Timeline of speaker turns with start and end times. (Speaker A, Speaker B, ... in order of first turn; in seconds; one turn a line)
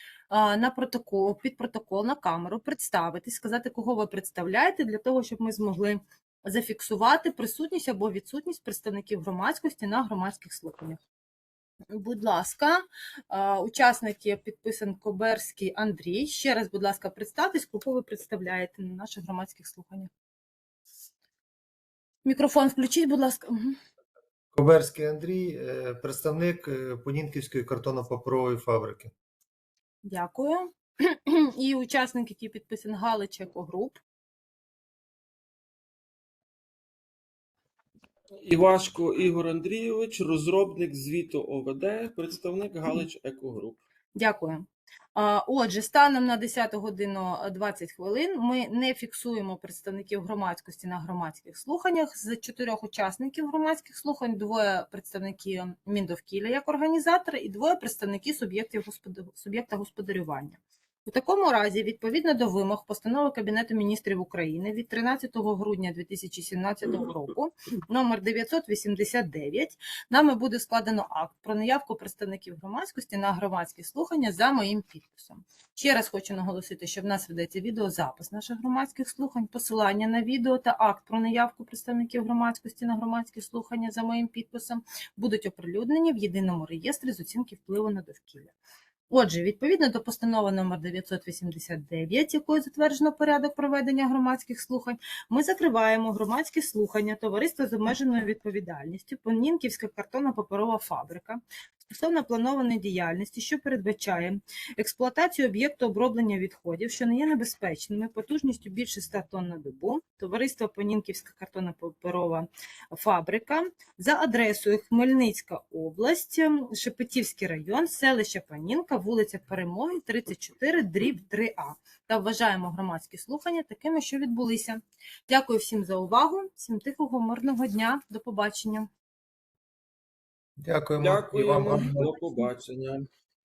Speaker A: 0.3-11.0
Speaker A: 11.9-20.1
Speaker A: 22.2-23.8
Speaker B: 24.5-29.1
Speaker A: 30.0-34.0
Speaker C: 38.4-43.8
Speaker A: 44.1-88.5
Speaker A: 89.1-128.9
Speaker B: 130.6-132.1
Speaker C: 131.0-133.0